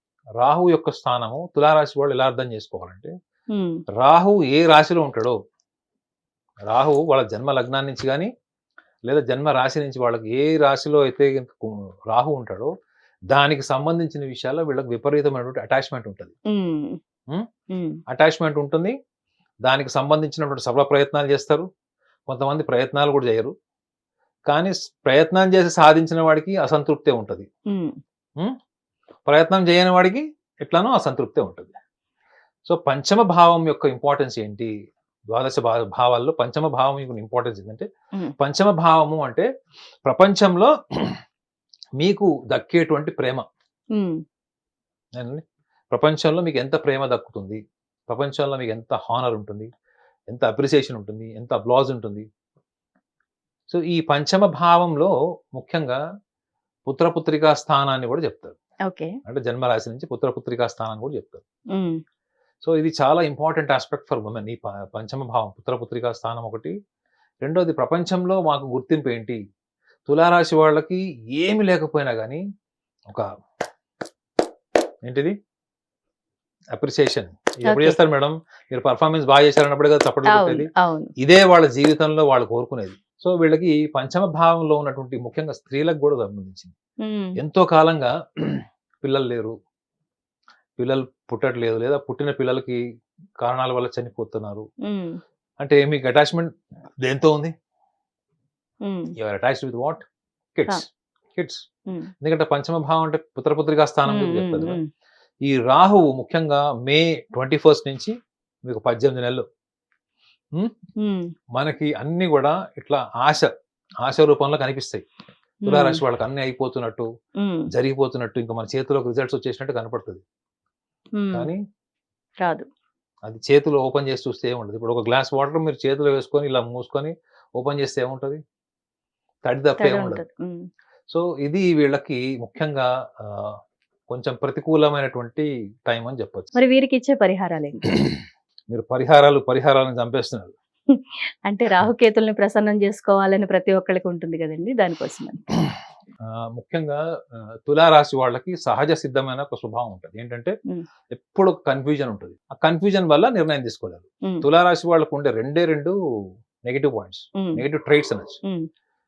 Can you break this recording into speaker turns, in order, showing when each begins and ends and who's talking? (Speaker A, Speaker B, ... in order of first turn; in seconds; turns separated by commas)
Speaker A: 0.4-3.1, Speaker B: 3.5-3.8, Speaker A: 4.0-5.3, Speaker A: 6.7-8.3, Speaker A: 9.1-12.7, Speaker A: 13.3-16.3, Speaker B: 16.5-17.0, Speaker B: 17.7-18.0, Speaker A: 18.1-18.9, Speaker A: 19.6-21.7, Speaker A: 22.3-23.5, Speaker A: 24.5-27.5, Speaker B: 27.7-28.0, Speaker A: 29.3-31.7, Speaker A: 32.6-34.7, Speaker A: 35.3-37.9, Speaker A: 38.4-39.5, Speaker A: 40.1-41.2, Speaker A: 42.0-43.4, Speaker B: 43.9-44.2, Speaker A: 45.2-49.7, Speaker A: 50.3-52.2, Speaker A: 53.7-56.0, Speaker A: 56.9-58.5, Speaker B: 58.9-59.1, Speaker A: 59.2-61.4, Speaker B: 61.7-62.0, Speaker A: 62.6-66.7, Speaker A: 67.4-69.4, Speaker A: 70.1-72.4, Speaker A: 75.0-75.3, Speaker A: 76.7-86.7, Speaker B: 77.7-78.0, Speaker B: 80.3-81.1, Speaker B: 87.0-87.3, Speaker A: 87.4-89.5, Speaker A: 90.8-92.8, Speaker A: 93.4-94.6, Speaker B: 94.8-95.2, Speaker A: 95.6-96.5, Speaker A: 97.0-97.5, Speaker B: 98.8-99.1, Speaker A: 99.2-100.0, Speaker A: 100.5-101.6, Speaker A: 102.2-104.8, Speaker B: 104.1-104.8, Speaker A: 105.4-108.1, Speaker A: 108.7-109.4, Speaker B: 111.0-111.3, Speaker A: 111.5-113.5, Speaker A: 114.0-115.0, Speaker B: 115.6-116.0, Speaker A: 115.7-117.1, Speaker B: 117.4-117.7, Speaker A: 117.7-120.2, Speaker B: 121.2-121.5, Speaker A: 121.3-121.6, Speaker B: 122.4-122.7, Speaker A: 123.3-128.4, Speaker A: 129.4-130.2, Speaker B: 129.8-130.7, Speaker A: 131.1-133.6, Speaker A: 134.1-136.6, Speaker B: 136.5-137.8, Speaker A: 138.7-140.5, Speaker B: 140.9-145.4, Speaker A: 146.3-150.5, Speaker A: 151.1-155.9, Speaker A: 156.6-158.4, Speaker B: 157.3-157.6